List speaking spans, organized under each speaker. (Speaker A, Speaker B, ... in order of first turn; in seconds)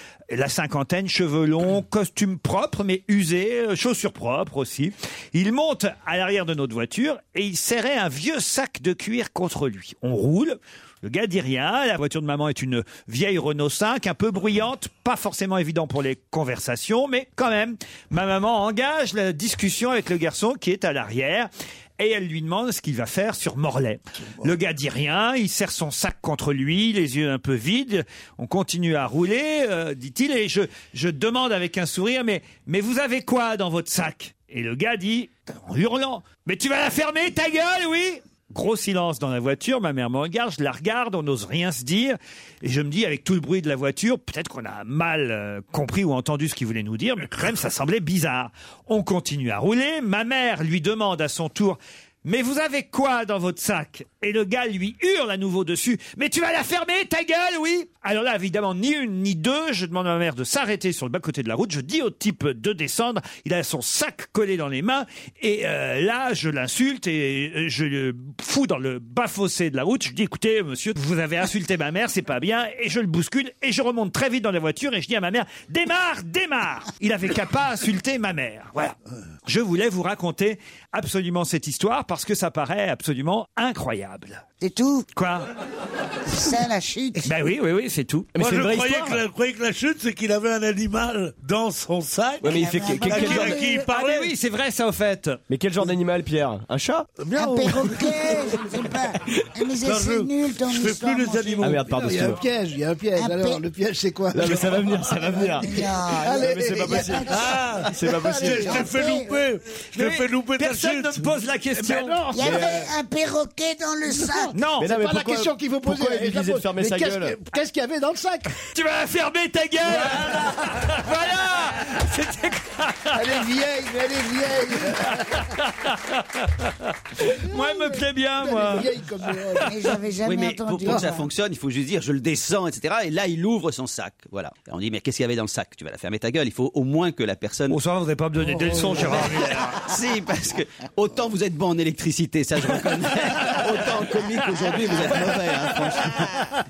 Speaker A: 0.3-78.9, 79.5-84.4, 85.1-85.5, 87.2-88.3, 93.2-95.4, 109.9-112.2, 114.5-114.9, 118.7-123.2, 125.0-129.7, 137.7-139.8
Speaker B: 84.6-85.1, 86.3-87.3, 92.4-93.8, 97.3-101.8, 103.2-103.6, 105.6-107.6, 108.6-109.3, 112.3-114.5, 129.6-131.2
Speaker C: 88.3-89.2, 92.4-93.7, 95.5-97.1, 101.6-102.4, 104.3-105.8, 106.4-107.3, 107.9-108.8, 112.4-112.8, 114.8-117.4
Speaker D: 88.4-94.3, 97.2-98.0, 99.8-102.1, 107.3-107.9, 108.4-111.4
Speaker E: 101.9-105.6, 106.2-107.1, 108.0-108.9, 111.8-112.8, 114.1-118.5, 119.9-120.8, 123.1-125.4, 127.5-129.8, 138.4-139.3
Speaker F: 130.2-137.8, 139.8-146.3